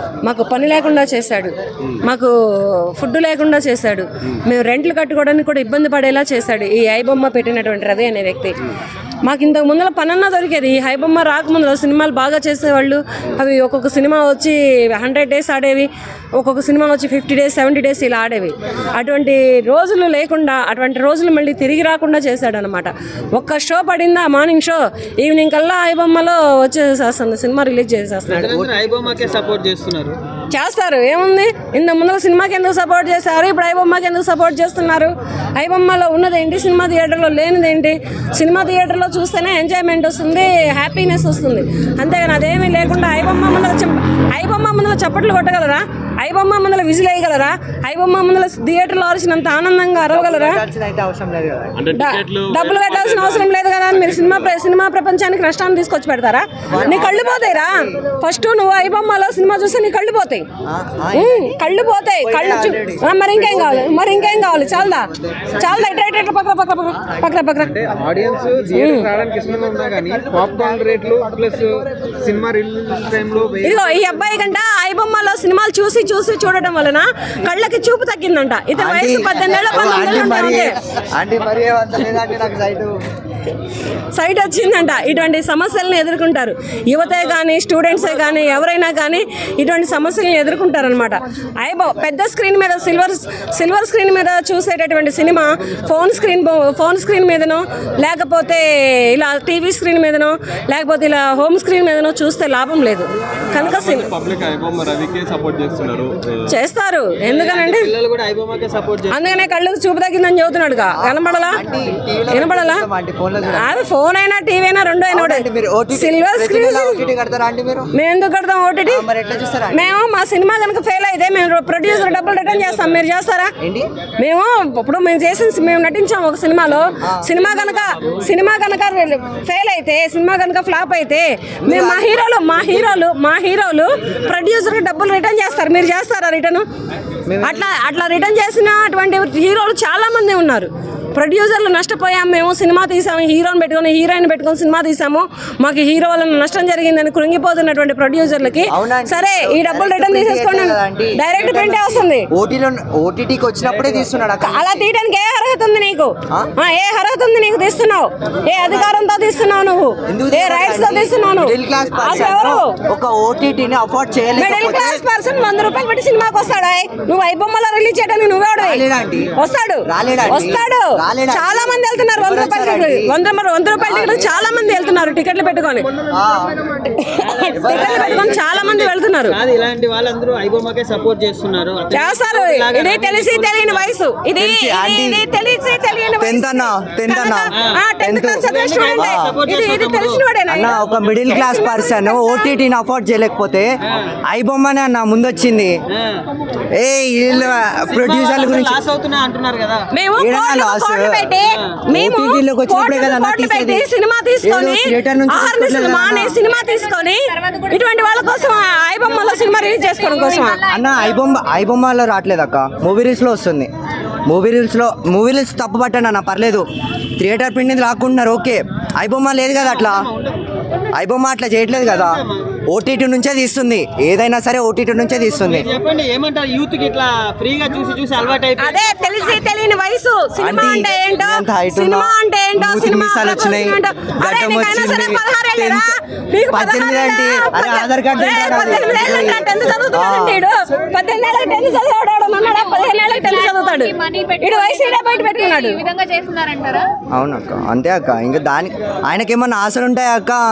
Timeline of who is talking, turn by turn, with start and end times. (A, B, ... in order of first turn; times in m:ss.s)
0:00.2-0:08.6 A
0:09.2-0:28.6 A
0:28.3-0:30.2 B
0:30.5-0:50.6 A
0:50.1-0:51.7 C
0:51.8-0:54.5 D
0:51.9-1:00.4 A
0:56.7-0:58.0 C
1:00.6-1:01.6 C
1:01.1-1:07.8 A
1:02.2-1:04.3 C
1:07.6-1:13.8 B
1:08.7-1:09.1 A
1:13.6-1:20.8 A
1:18.7-1:22.9 C
1:24.1-1:44.1 A
1:43.5-1:46.2 D
1:46.5-1:47.9 A
1:47.2-1:49.2 B
1:49.1-1:51.6 A
1:50.9-1:53.7 C
1:52.3-1:52.8 A
1:53.5-1:57.0 A
1:55.1-1:57.9 C
1:57.9-1:59.0 A
1:58.8-1:59.9 C
1:59.7-2:03.5 A
2:03.6-2:03.9 C
2:04.2-2:16.6 A
2:07.0-2:07.3 C
2:11.6-2:12.2 C
2:17.3-2:17.7 C
2:17.4-2:32.3 A
2:28.7-2:34.8 C
2:34.4-2:42.7 A
2:38.5-2:38.9 C
2:40.1-2:45.0 C
2:44.4-2:55.9 A
2:48.6-2:49.3 C
2:49.9-2:53.2 C
2:53.8-2:54.3 C
2:56.1-2:56.5 C
2:56.9-2:59.4 A
2:57.2-2:58.8 B
2:57.5-2:58.8 C
2:59.3-3:03.8 B
3:01.9-3:12.5 A
3:04.4-3:05.2 C
3:06.2-3:09.3 C
3:08.4-3:10.2 B
3:10.5-3:13.7 C
3:14.3-3:15.8 C
3:15.9-3:16.2 B
3:16.7-3:18.8 C
3:17.3-3:19.8 B
3:19.9-3:30.6 A
3:20.2-3:21.2 C
3:21.9-3:23.8 C
3:24.4-3:26.4 C
3:27.2-3:31.2 E
3:30.7-3:33.7 C
3:34.2-3:36.6 C
3:37.2-3:40.0 C
3:39.6-3:40.4 B
3:40.9-3:45.6 C
3:41.8-3:42.4 B
3:45.4-3:48.8 B
3:48.6-4:05.8 A
3:50.4-3:55.9 C
3:56.5-4:00.4 C
4:02.4-4:06.9 E
4:07.1-4:10.4 C